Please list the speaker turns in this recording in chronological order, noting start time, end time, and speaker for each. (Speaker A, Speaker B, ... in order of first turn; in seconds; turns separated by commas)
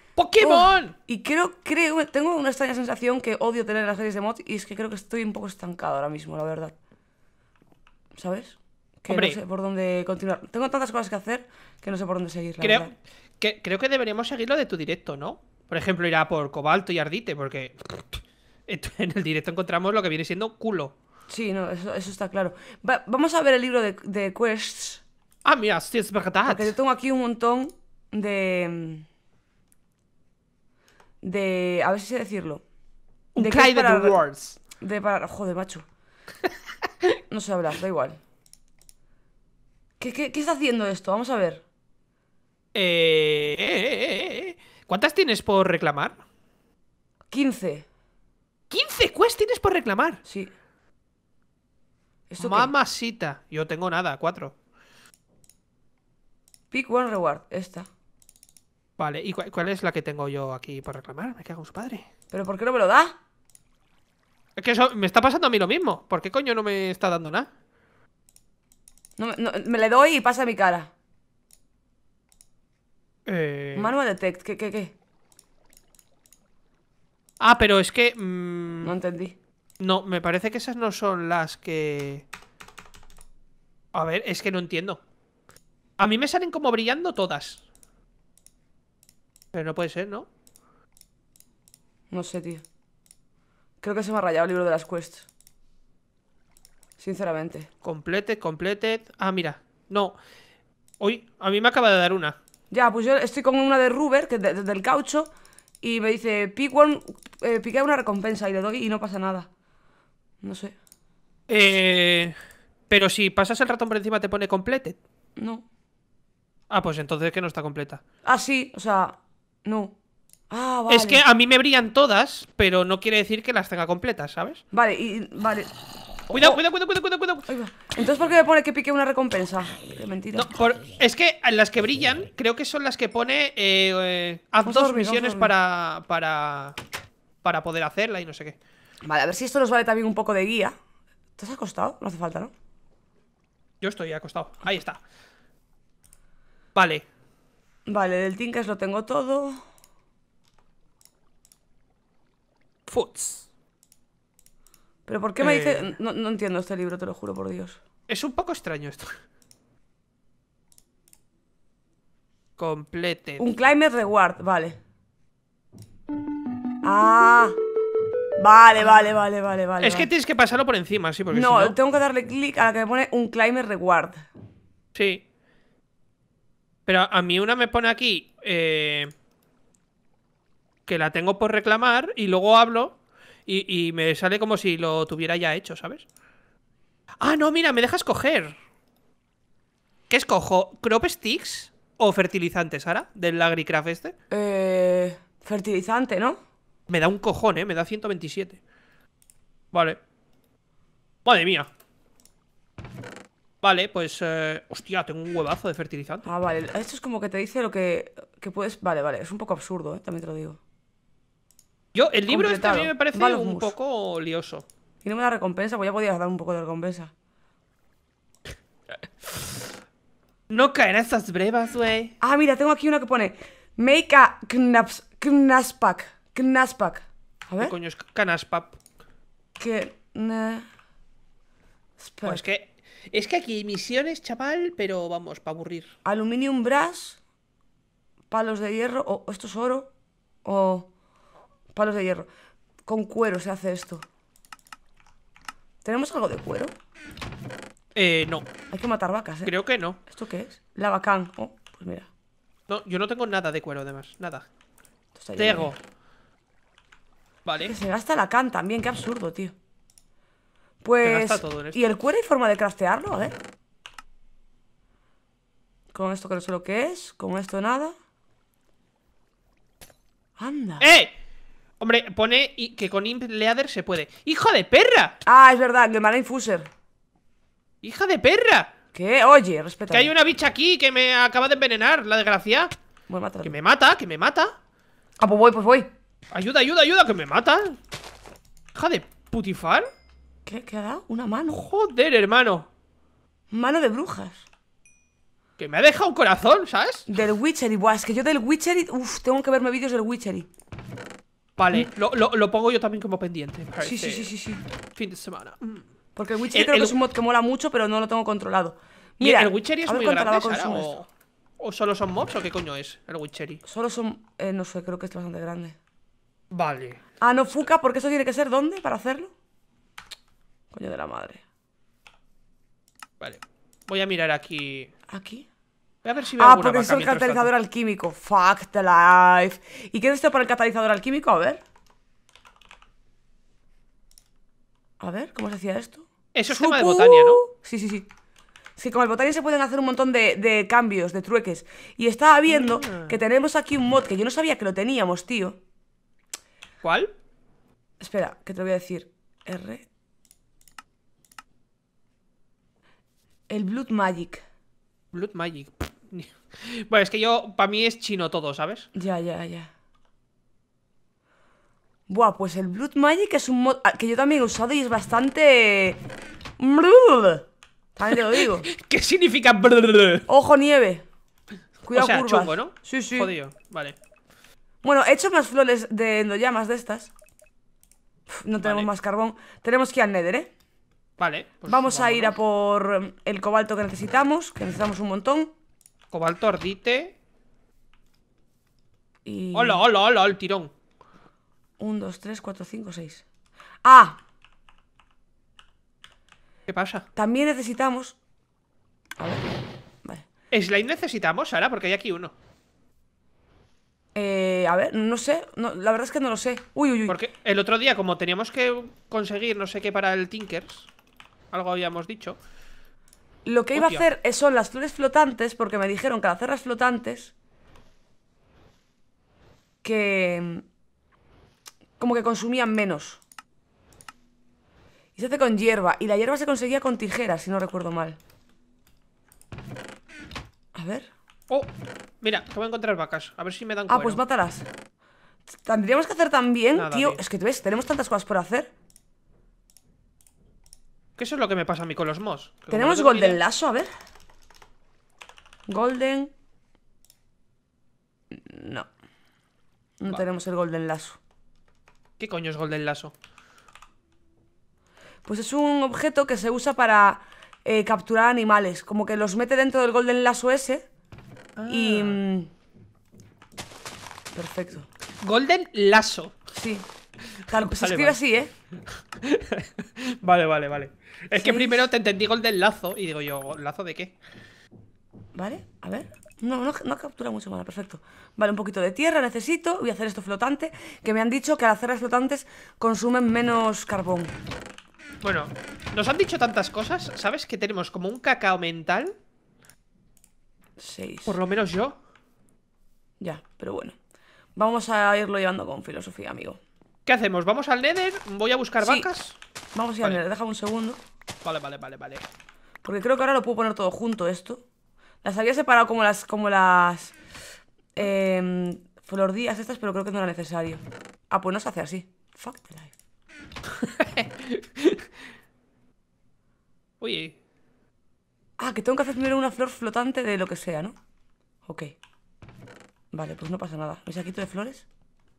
Speaker A: 0.1-0.9, Speaker B: 0.4-6.7, Speaker B: 8.1-12.9, Speaker A: 9.1-9.4, Speaker A: 12.6-20.9, Speaker B: 21.3-25.0, Speaker A: 25.4-26.7, Speaker B: 26.5-29.1, Speaker B: 31.2-32.6, Speaker A: 33.3-34.6, Speaker B: 33.4-34.2, Speaker B: 34.8-35.8, Speaker B: 37.3-38.2, Speaker B: 40.0-41.6, Speaker A: 42.7-46.2, Speaker B: 47.3-47.9, Speaker A: 48.7-50.2, Speaker B: 50.2-50.5, Speaker B: 52.3-52.7, Speaker A: 52.4-54.5, Speaker B: 56.7-57.9, Speaker A: 59.0-62.0, Speaker B: 62.3-63.1, Speaker A: 64.5-67.5, Speaker B: 69.2-70.9, Speaker A: 73.2-73.9, Speaker B: 73.7-74.9, Speaker A: 77.4-78.9, Speaker B: 78.8-79.4, Speaker A: 79.8-82.2, Speaker A: 83.9-85.0, Speaker A: 86.0-87.6, Speaker A: 89.5-90.3, Speaker B: 92.1-92.6, Speaker B: 93.8-95.3, Speaker B: 97.0-97.7, Speaker A: 97.8-100.2, Speaker A: 101.0-102.4, Speaker B: 102.7-109.5, Speaker B: 110.4-110.8, Speaker A: 111.5-112.3, Speaker A: 112.9-115.0, Speaker B: 115.4-115.6, Speaker A: 116.7-118.0, Speaker B: 118.2-119.9, Speaker B: 120.5-121.2, Speaker A: 120.9-124.6, Speaker B: 124.7-125.7, Speaker B: 126.3-126.6, Speaker A: 126.3-127.5, Speaker B: 127.5-130.5, Speaker A: 130.3-136.8, Speaker B: 134.6-135.5, Speaker A: 137.4-138.6, Speaker B: 139.0-140.7, Speaker B: 141.4-142.5, Speaker A: 143.8-145.0, Speaker A: 146.7-147.0, Speaker B: 147.9-149.6, Speaker A: 152.9-153.4, Speaker B: 155.1-157.8, Speaker A: 155.4-155.9, Speaker A: 158.1-159.2, Speaker A: 162.6-163.4, Speaker B: 163.4-164.8, Speaker B: 166.8-167.5, Speaker B: 168.4-170.1, Speaker A: 169.8-171.8, Speaker B: 171.3-174.3, Speaker A: 174.9-175.2, Speaker A: 176.8-179.1, Speaker A: 180.8-186.1, Speaker A: 187.2-188.5, Speaker A: 190.1-194.1, Speaker B: 194.3-196.4, Speaker A: 196.9-198.6, Speaker A: 199.7-200.0, Speaker A: 201.2-201.7, Speaker A: 203.6-206.2, Speaker B: 206.2-210.6, Speaker A: 211.9-214.6, Speaker B: 212.3-213.7, Speaker B: 215.0-217.1, Speaker A: 220.5-222.1, Speaker B: 222.2-227.7, Speaker A: 227.6-228.8, Speaker B: 229.6-230.6, Speaker B: 232.0-232.4, Speaker A: 232.2-235.9, Speaker B: 236.0-237.2, Speaker B: 238.3-239.9, Speaker B: 240.4-240.9, Speaker B: 241.7-242.3, Speaker B: 242.8-244.1, Speaker B: 245.8-246.7, Speaker A: 247.9-248.4, Speaker B: 248.7-249.5, Speaker A: 249.4-250.0, Speaker B: 250.1-252.1, Speaker A: 252.7-254.5, Speaker B: 255.2-255.7, Speaker A: 255.4-255.8, Speaker A: 257.4-257.7, Speaker B: 257.6-259.5, Speaker B: 260.8-263.4, Speaker A: 261.0-261.8, Speaker B: 265.9-267.9, Speaker B: 270.4-270.9, Speaker A: 270.8-271.1, Speaker A: 271.8-275.2, Speaker B: 275.2-276.7, Speaker A: 277.8-278.7, Speaker B: 278.9-280.1, Speaker A: 279.9-282.7, Speaker B: 283.1-283.6, Speaker A: 283.4-284.5, Speaker B: 285.2-285.9, Speaker A: 286.3-287.8, Speaker A: 288.7-289.9, Speaker B: 290.4-291.6, Speaker A: 291.5-292.7, Speaker B: 293.5-294.4, Speaker A: 295.6-297.1, Speaker B: 297.1-300.5, Speaker A: 301.6-304.3, Speaker B: 303.8-304.6, Speaker A: 304.9-305.9, Speaker B: 306.1-310.9, Speaker A: 306.5-306.9, Speaker A: 309.2-311.1, Speaker A: 311.6-313.6, Speaker B: 313.6-315.8, Speaker A: 316.5-317.0, Speaker B: 317.2-319.3, Speaker B: 320.7-321.4, Speaker A: 323.2-324.9, Speaker B: 325.1-325.5, Speaker A: 326.0-327.5, Speaker B: 326.4-331.6, Speaker B: 335.0-338.1, Speaker A: 336.3-337.4, Speaker B: 338.8-345.6, Speaker A: 342.5-343.2, Speaker A: 346.8-347.1, Speaker B: 348.0-349.9, Speaker B: 353.5-354.4, Speaker A: 355.1-358.9, Speaker B: 358.9-359.7, Speaker B: 362.1-366.0, Speaker B: 366.6-368.7, Speaker A: 368.1-370.3, Speaker B: 370.3-371.1, Speaker B: 371.8-373.3, Speaker A: 371.9-373.9, Speaker B: 374.8-377.1, Speaker B: 378.3-380.5, Speaker A: 378.6-378.9, Speaker A: 381.2-382.3, Speaker B: 381.7-385.5, Speaker A: 386.1-387.1, Speaker B: 389.2-389.8, Speaker A: 389.5-390.7, Speaker B: 391.8-393.2, Speaker B: 393.8-394.2, Speaker A: 396.7-397.0, Speaker B: 397.1-398.1, Speaker B: 399.2-399.5, Speaker A: 400.5-402.3, Speaker B: 404.1-407.2, Speaker A: 407.1-410.9, Speaker A: 411.5-412.4, Speaker B: 413.4-417.3, Speaker A: 413.7-414.0, Speaker B: 419.8-420.6, Speaker B: 422.0-423.2, Speaker B: 425.1-428.2, Speaker B: 430.7-431.1, Speaker A: 431.5-434.2, Speaker B: 433.9-434.7, Speaker B: 435.6-438.7, Speaker A: 436.7-437.2, Speaker A: 441.1-443.4, Speaker B: 442.7-443.9, Speaker B: 445.7-446.3, Speaker B: 448.3-448.9, Speaker B: 450.0-451.2, Speaker A: 452.2-453.1, Speaker B: 455.2-460.9, Speaker A: 461.6-462.2, Speaker B: 461.7-462.5, Speaker B: 464.3-464.9, Speaker A: 465.2-466.3, Speaker B: 466.5-466.9, Speaker B: 467.5-468.5, Speaker A: 467.5-468.2, Speaker A: 469.1-474.2, Speaker B: 471.3-471.9, Speaker B: 475.3-484.3, Speaker A: 485.2-489.1, Speaker B: 490.8-491.4, Speaker A: 491.3-492.0, Speaker B: 493.2-493.9, Speaker B: 494.6-496.6, Speaker A: 497.1-499.4, Speaker B: 498.8-499.1, Speaker B: 499.7-501.0, Speaker A: 501.4-502.2, Speaker B: 502.8-504.6, Speaker B: 505.2-507.1, Speaker B: 507.9-512.9, Speaker A: 513.6-515.0, Speaker A: 517.0-517.4, Speaker B: 518.6-521.0, Speaker B: 521.6-522.0, Speaker B: 523.1-524.8